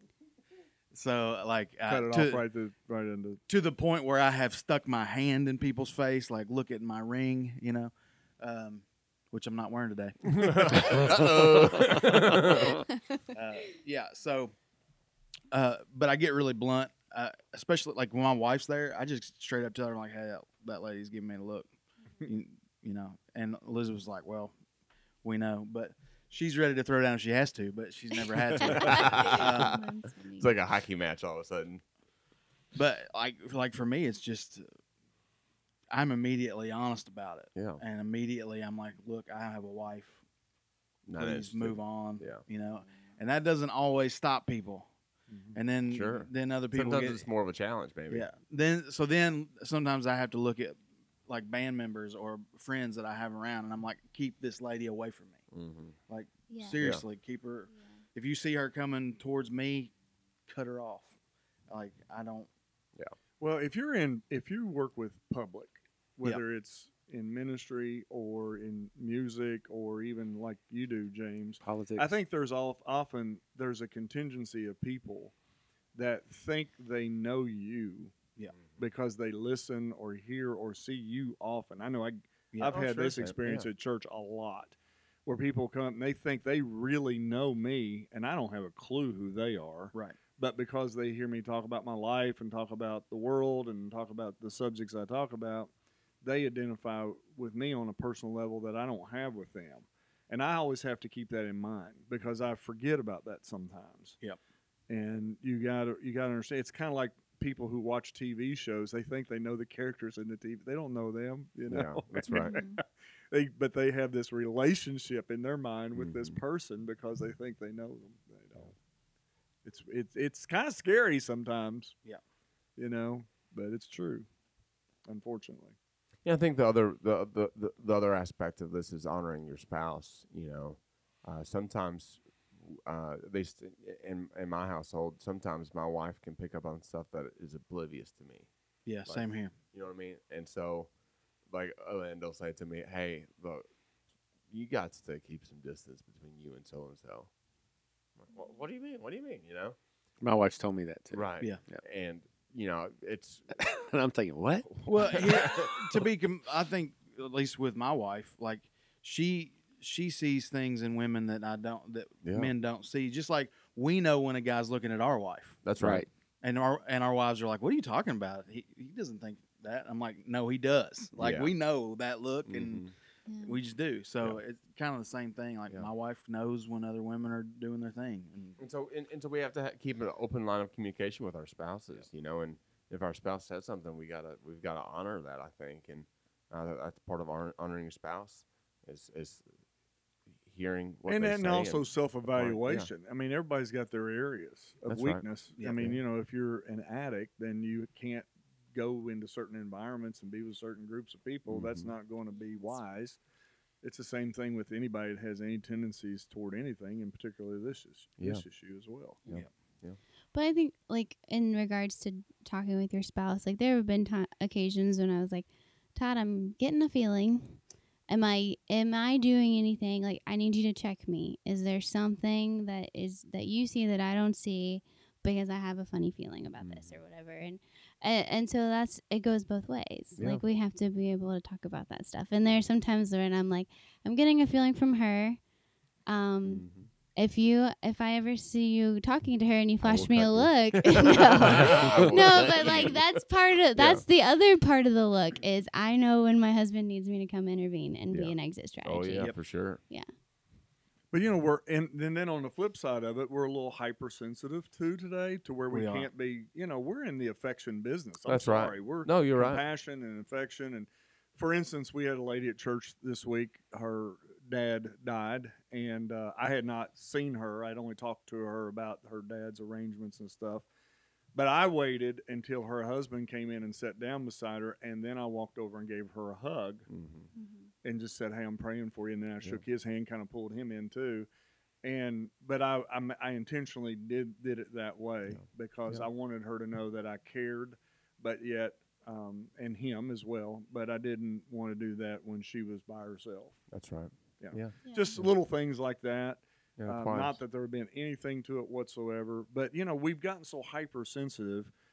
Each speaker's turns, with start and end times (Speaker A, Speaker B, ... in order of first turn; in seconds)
Speaker A: 0.9-2.4, 3.5-12.6, 13.3-14.5, 15.5-21.7, 22.2-24.5, 25.2-29.8, 32.7-34.7, 35.9-40.2, 41.2-44.9, 45.5-47.2, 48.1-55.4, 56.1-59.9, 60.5-61.1, 61.7-62.5, 82.5-82.8, 89.9-90.2, 138.9-139.5, 154.8-165.6, 166.4-172.9, 173.4-178.6, 195.6-195.9, 255.7-256.1
Speaker B: 1.9-3.4, 63.4-75.3, 75.9-95.7, 96.2-104.2, 104.9-118.7, 119.6-122.0, 122.8-124.3, 125.1-125.7, 191.1-203.2, 203.8-209.2, 251.1-270.6, 271.3-276.9, 277.8-281.3, 281.8-293.6, 294.4-301.7
Speaker C: 10.2-12.8, 28.6-29.8, 30.4-31.8, 37.5-37.8, 41.1-42.4, 45.9-48.3, 55.5-56.0, 82.6-83.7, 111.7-112.6, 115.9-116.4, 126.2-138.5, 139.1-140.9, 141.5-143.6, 144.5-147.3, 148.2-149.8, 151.1-153.5, 154.8-155.7, 162.2-162.5, 165.6-166.1, 171.2-171.5, 172.5-172.9, 178.6-189.4, 190.4-192.9, 194.9-196.0, 201.5-201.9, 208.2-208.4, 209.3-210.0, 226.6-227.0, 230.2-230.4, 236.4-236.9, 239.8-243.2, 243.7-244.1, 248.1-249.8, 258.3-259.6, 276.9-277.3, 285.3-286.1, 293.7-295.3, 296.8-297.4
Speaker D: 28.6-30.5, 56.5-56.8, 57.7-58.0, 112.3-112.8, 173.3-173.6, 210.3-235.4, 236.1-250.1, 277.4-277.7, 294.9-295.1
Speaker E: 71.6-72.1, 150.2-151.8, 153.5-155.3, 165.8-166.1